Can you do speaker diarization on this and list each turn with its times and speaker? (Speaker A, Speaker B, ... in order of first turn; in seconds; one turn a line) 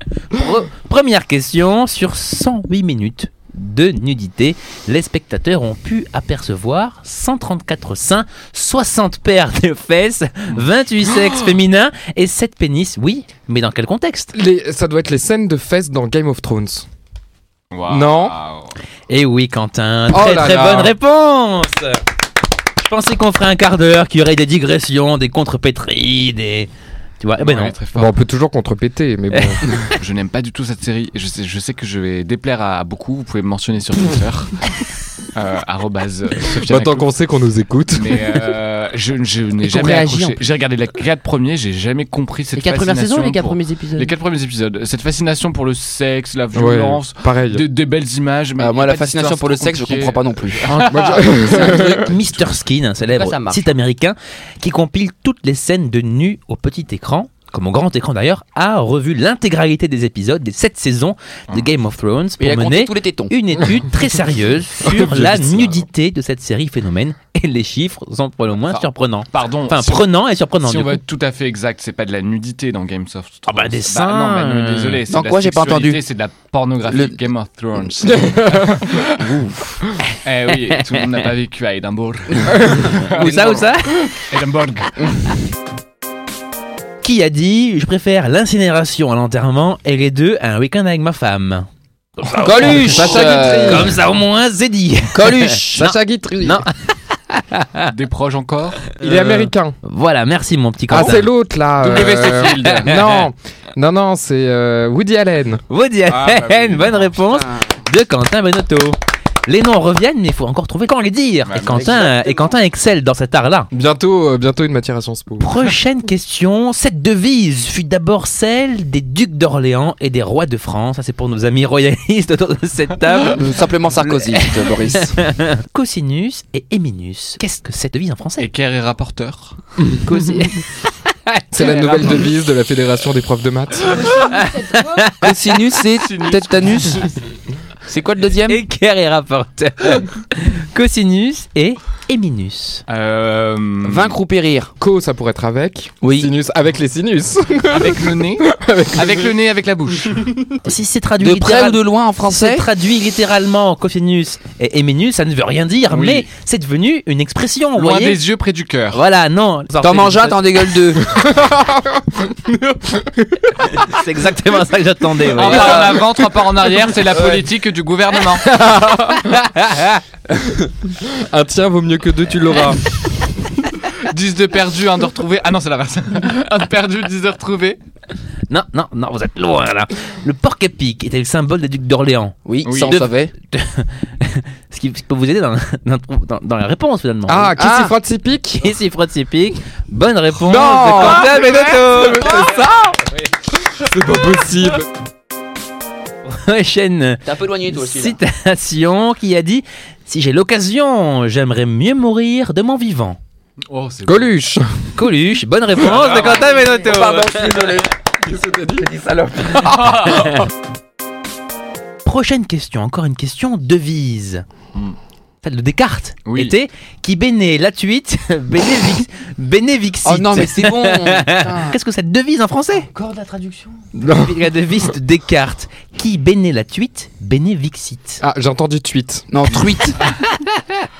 Speaker A: 0.3-14.3
Speaker B: 14.3-16.9
Speaker C: 17.7-18.8
Speaker B: 17.9-18.4
Speaker A: 19.1-22.0
Speaker B: 20.1-20.9
Speaker A: 22.8-26.7
Speaker A: 27.2-27.7
Speaker C: 27.4-28.2
Speaker B: 27.9-29.8
Speaker A: 29.3-29.6
Speaker C: 29.9-34.7
Speaker C: 35.3-37.1
Speaker B: 36.6-38.2
Speaker C: 37.9-51.6
Speaker D: 39.6-40.4
Speaker D: 42.6-44.1
Speaker B: 46.5-47.6
Speaker E: 48.6-50.7
Speaker B: 50.7-52.1
Speaker A: 51.4-71.0
Speaker E: 51.8-52.1
Speaker D: 53.1-53.7
Speaker E: 62.4-63.3
Speaker B: 64.8-65.8
Speaker C: 68.6-70.1
Speaker C: 70.6-79.1
Speaker A: 73.5-75.0
Speaker E: 75.1-76.0
Speaker E: 76.9-77.2
Speaker B: 78.1-79.0
Speaker E: 79.2-79.8
Speaker C: 80.2-84.9
Speaker A: 80.7-81.0
Speaker B: 82.5-82.9
Speaker A: 82.9-84.1
Speaker A: 87.0-97.9
Speaker E: 92.4-94.0
Speaker B: 92.6-94.0
Speaker E: 95.1-96.0
Speaker B: 95.8-96.6
Speaker C: 97.9-98.8
Speaker A: 98.9-101.3
Speaker B: 99.0-99.8
Speaker B: 100.9-105.6
Speaker C: 101.8-103.3
Speaker A: 102.6-103.1
Speaker A: 105.7-113.7
Speaker C: 106.1-107.1
Speaker E: 107.3-107.7
Speaker C: 111.5-112.1
Speaker E: 111.6-112.5
Speaker B: 113.7-115.5
Speaker A: 115.4-123.4
Speaker E: 123.3-125.2
Speaker A: 124.0-128.5
Speaker C: 128.4-129.6
Speaker A: 130.0-132.3
Speaker B: 131.5-133.9
Speaker D: 133.9-135.2
Speaker A: 134.3-135.8
Speaker E: 135.2-137.1
Speaker C: 136.0-137.2
Speaker E: 137.9-138.6
Speaker A: 138.5-142.8
Speaker C: 142.9-144.2
Speaker E: 143.8-144.7
Speaker B: 144.8-149.3
Speaker E: 146.0-146.3
Speaker C: 147.7-150.2
Speaker A: 150.6-158.2
Speaker E: 151.2-152.7
Speaker C: 155.9-156.3
Speaker C: 157.8-159.0
Speaker A: 158.9-160.7
Speaker E: 159.8-161.1
Speaker B: 161.0-164.0
Speaker A: 163.7-166.0
Speaker E: 165.3-166.1
Speaker C: 165.4-168.5
Speaker B: 165.8-166.3
Speaker B: 168.4-169.4
Speaker A: 169.2-170.0
Speaker B: 170.4-172.8
Speaker C: 174.0-177.8
Speaker A: 178.5-187.6
Speaker E: 182.5-183.3
Speaker C: 182.6-183.1
Speaker B: 187.3-188.6
Speaker E: 187.6-187.9
Speaker A: 188.6-192.9
Speaker E: 190.4-191.4
Speaker B: 190.6-192.7
Speaker B: 193.7-194.9
Speaker A: 196.3-203.2
Speaker E: 197.2-198.2
Speaker C: 203.7-204.3
Speaker B: 204.1-204.7
Speaker A: 205.0-207.8
Speaker C: 205.8-206.6
Speaker E: 206.1-207.9
Speaker B: 208.2-208.9
Speaker E: 208.8-209.8
Speaker C: 209.7-210.3
Speaker A: 212.1-214.4
Speaker A: 215.4-222.9
Speaker C: 216.3-216.5
Speaker E: 220.1-221.8
Speaker D: 222.8-223.8
Speaker B: 224.0-224.5
Speaker A: 224.1-228.2
Speaker B: 228.2-229.3
Speaker E: 229.3-230.0